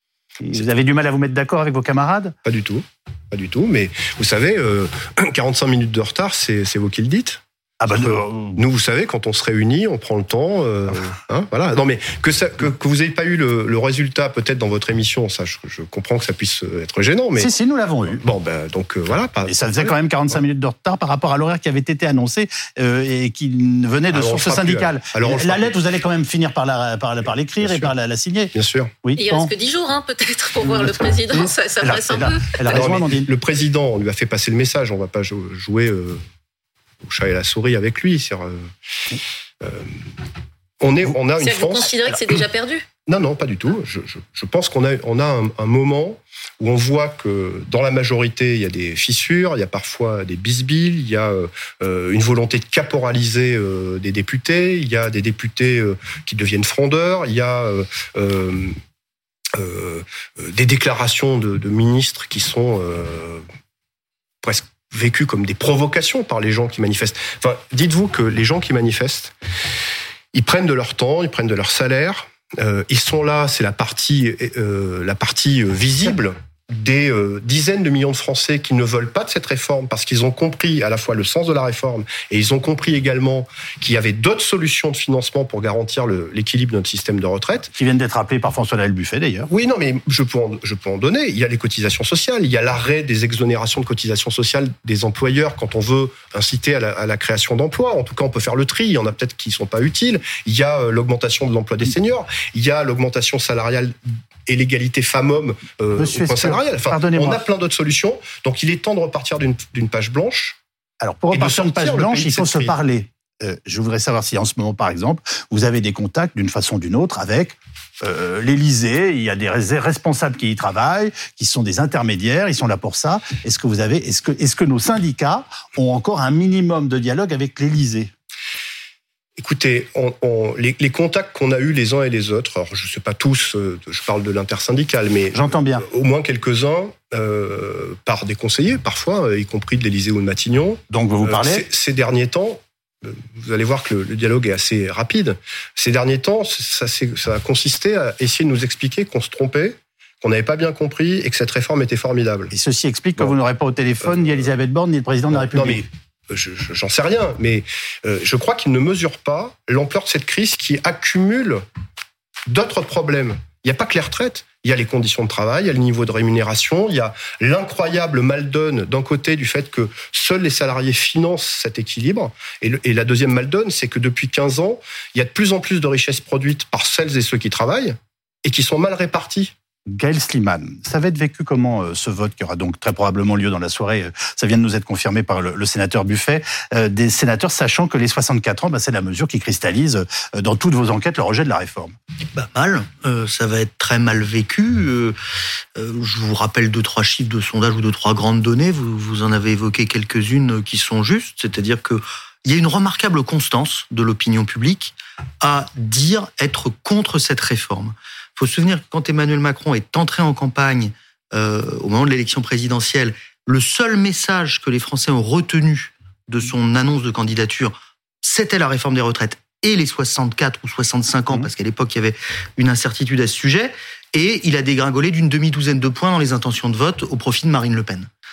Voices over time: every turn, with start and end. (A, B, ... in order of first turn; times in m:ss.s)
0:00.4-0:02.4 A
0:02.4-0:17.5 B
0:07.8-0:08.6 A
0:17.4-0:18.2 A
0:18.1-0:20.0 B
0:19.5-0:29.5 A
0:24.1-0:25.8 B
0:27.6-0:27.9 B
0:28.6-0:29.0 B
0:29.2-0:33.0 C
0:30.6-0:33.3 A
0:32.7-0:36.2 B
0:37.1-0:38.7 B
0:39.6-0:39.9 B
0:40.8-0:42.0 B
0:41.4-0:42.9 C
0:43.1-0:58.8 B
0:59.6-1:03.4 B
1:04.4-1:09.3 B
1:10.3-1:27.7 B
1:27.7-1:29.5 A
1:29.5-1:50.6 B
1:46.0-1:47.5 A
1:51.0-2:08.1 A
1:51.3-1:52.8 B
2:09.4-2:32.5 B
2:15.3-2:15.8 A
2:20.9-2:21.6 A
2:32.5-2:35.8 A
2:35.3-2:41.6 B
2:42.5-2:59.5 B
2:59.9-3:12.0 A
3:12.3-3:15.2 D
3:15.8-3:48.1 D